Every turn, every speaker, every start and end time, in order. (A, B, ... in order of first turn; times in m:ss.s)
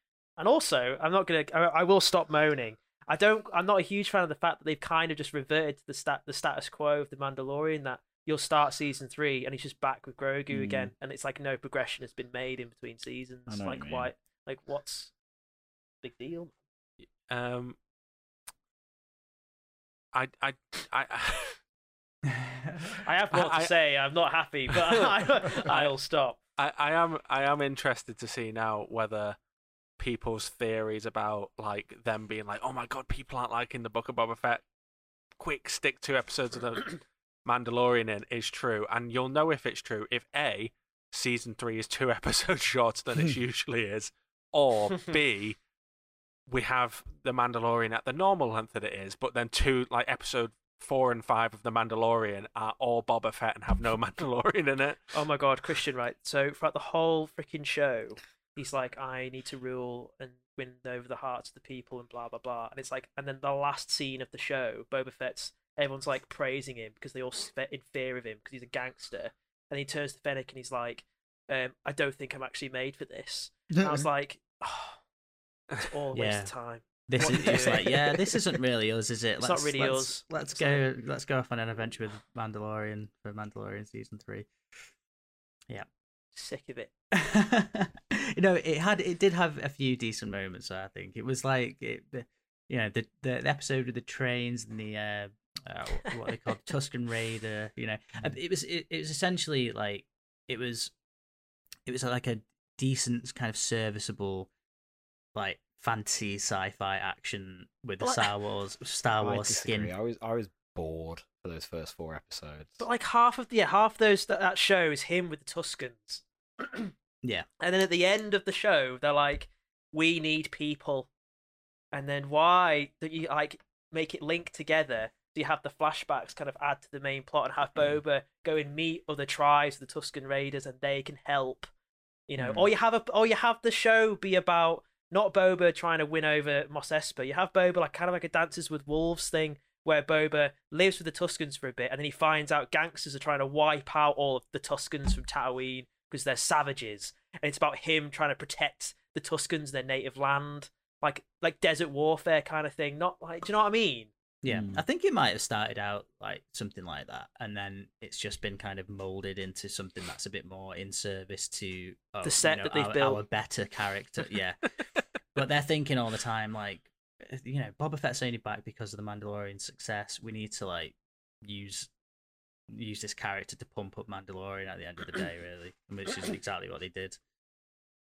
0:00.4-0:15.1 A
0:10.5-0:10.9 B
0:13.5-0:14.1 B
0:16.0-0:16.5 A
0:17.3-0:17.8 C
0:20.1-0:21.6 C
0:22.3-0:22.9 D
0:23.0-0:26.4 A
0:23.3-0:23.7 C
0:24.7-0:25.9 C
0:26.6-0:29.4 C
0:30.0-0:34.6 C
0:35.4-0:45.6 C
0:46.5-0:55.1 C
0:55.1-1:15.0 A
1:15.8-1:18.4 A
1:16.1-1:16.5 D
1:17.1-1:24.5 D
1:19.4-1:20.8 A
1:26.3-1:26.9 A
1:27.1-1:40.9 D
1:41.8-1:44.5 D
1:45.3-1:49.9 D
1:48.0-1:48.3 A
1:49.2-1:52.8 B
1:52.8-1:56.9 A
1:57.6-2:01.1 A
2:01.9-2:11.7 A
2:12.3-2:34.1 A
2:12.4-2:12.6 B
2:34.4-2:51.9 D
2:34.4-2:34.8 B
2:42.2-2:43.2 A
2:52.7-2:57.2 D